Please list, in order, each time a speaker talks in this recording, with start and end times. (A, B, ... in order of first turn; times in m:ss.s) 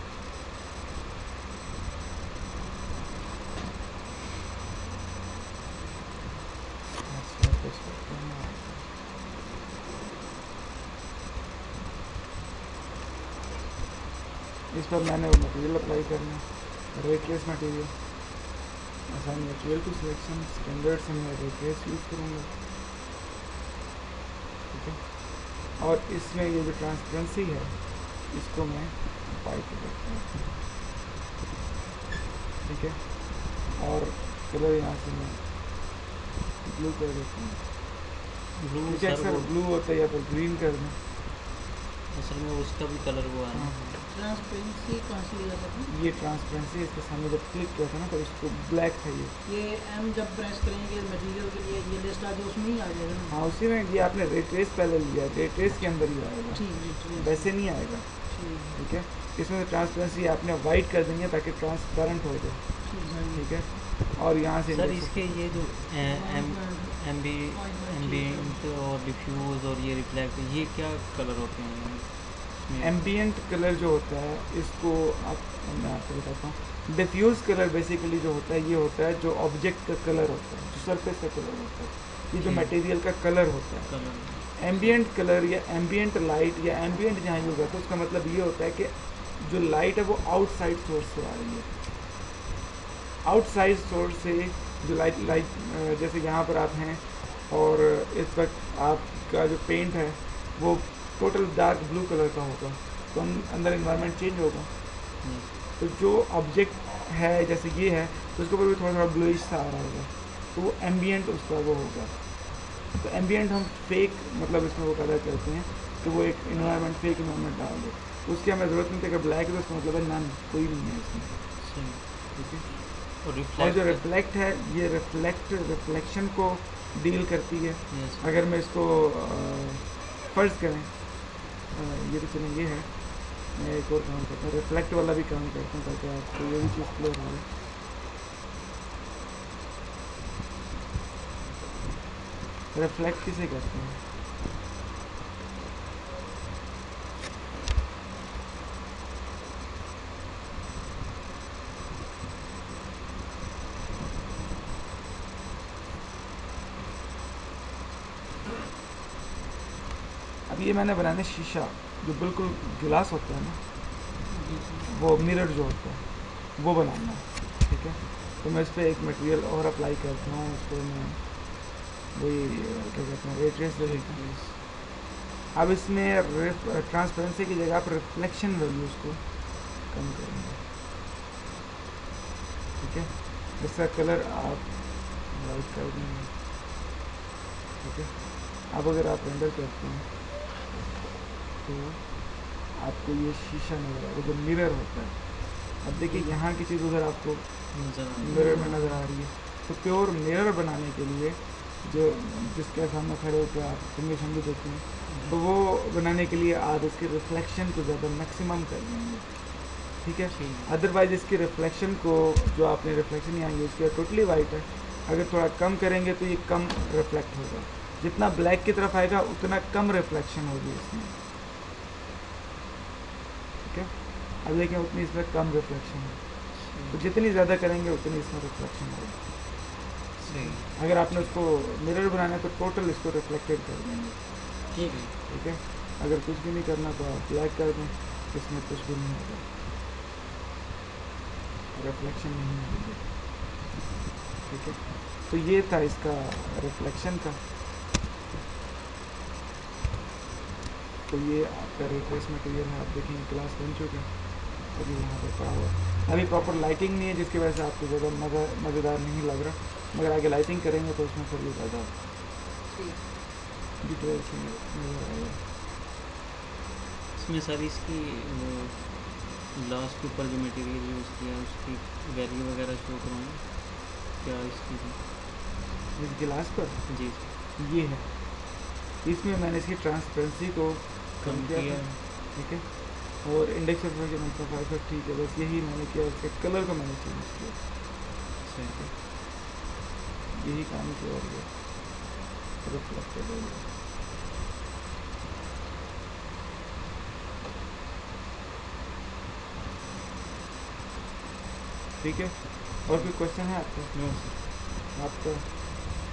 0:07.0-0:08.9 A
0:14.7-0:18.5 A
0:19.1-0:22.5 A
0:24.7-0:30.3 A
0:32.6-0:35.5 A
0:36.6-0:37.6 A
0:38.6-0:39.5 B
0:38.8-0:41.0 A
0:42.1-0:43.8 B
0:43.5-0:44.0 A
0:44.1-0:45.9 C
0:45.9-0:49.4 A
0:49.4-0:53.4 C
0:53.3-1:05.5 A
0:56.5-0:58.9 C
1:02.8-1:03.8 C
1:04.7-1:13.0 B
1:06.0-1:08.6 C
1:12.8-1:31.7 A
1:22.4-1:22.8 B
1:23.9-1:25.0 B
1:33.2-1:44.8 A
1:45.2-1:45.5 B
1:45.8-2:01.6 A
2:01.6-2:02.3 B
2:02.3-2:17.5 A
2:03.2-2:04.0 B
2:07.9-2:08.3 B
2:22.7-2:24.0 A
2:40.5-2:43.6 A
2:44.3-2:44.9 C
2:44.9-2:54.2 A
2:53.8-2:54.6 B
2:55.5-3:00.6 A
3:02.8-3:06.3 A
3:07.8-3:10.1 A
3:11.6-3:41.2 A
3:16.0-3:16.3 C
3:17.7-3:19.0 B
3:18.3-3:18.9 C
3:25.1-3:25.4 B
3:30.3-3:30.7 B
3:43.6-3:49.3 A
3:46.5-3:47.0 B
3:50.2-3:51.4 B
3:50.3-3:59.5 A
3:54.7-3:55.1 B
4:01.7-4:03.1 A
4:04.4-4:07.4 A
4:11.1-4:21.9 A
4:22.7-4:23.0 C
4:23.8-4:25.4 A
4:27.1-4:35.0 B
4:36.0-4:48.2 A
4:36.9-4:37.3 B
4:41.2-4:42.0 B
4:48.4-4:48.8 B
4:48.7-4:49.0 A
4:50.3-4:53.7 A
5:02.0-5:05.5 A
5:02.9-5:04.4 B